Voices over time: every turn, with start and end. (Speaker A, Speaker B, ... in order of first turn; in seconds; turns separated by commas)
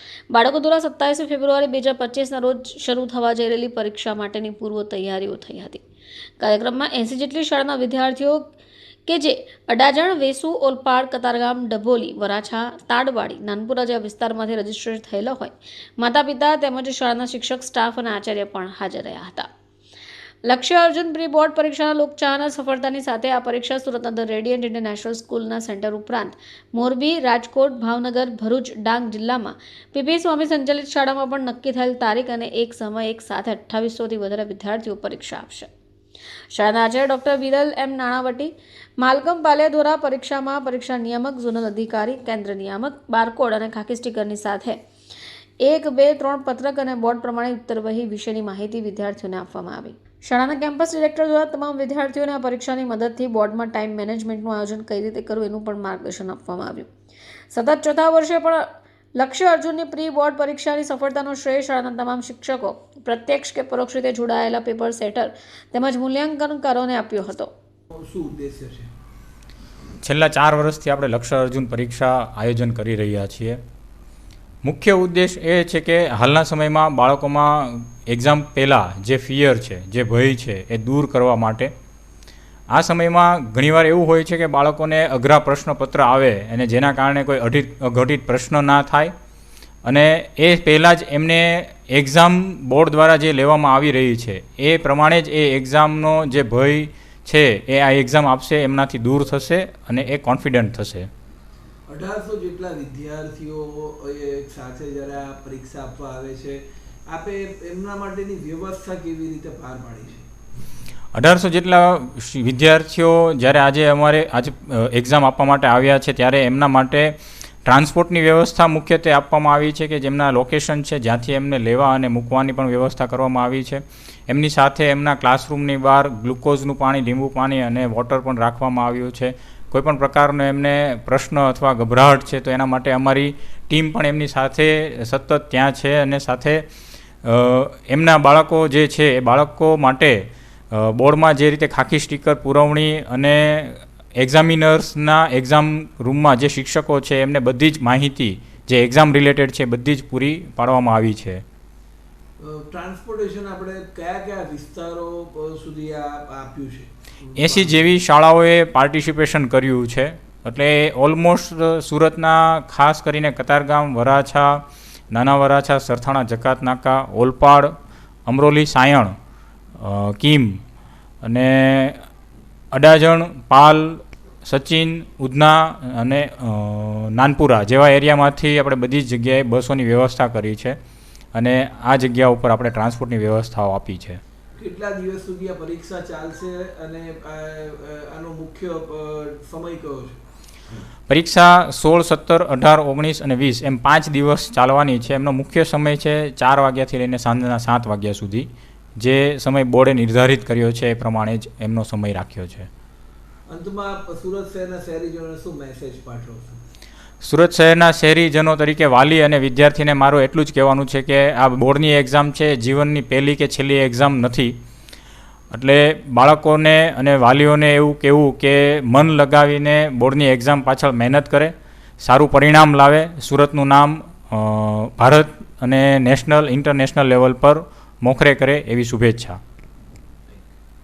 Speaker A: 0.3-5.8, Speaker A: 6.4-8.5, Speaker A: 9.1-19.5, Speaker A: 20.4-35.7, Speaker A: 36.5-44.8, Speaker A: 45.6-56.9, Speaker A: 57.5-67.5, Speaker B: 67.9-68.9, Speaker C: 70.0-73.6, Speaker C: 74.6-81.7, Speaker C: 82.7-89.1, Speaker C: 89.8-101.1, Speaker B: 101.9-110.3, Speaker C: 111.1-136.6, Speaker C: 137.2-151.4, Speaker B: 152.4-157.8, Speaker C: 157.3-167.7, Speaker C: 168.3-169.1, Speaker C: 169.8-170.6, Speaker C: 171.2-172.0, Speaker C: 172.7-180.8, Speaker C: 181.3-184.2, Speaker B: 184.6-190.2, Speaker C: 191.1-202.7, Speaker B: 203.5-206.6, Speaker C: 207.2-214.5, Speaker C: 215.5-229.4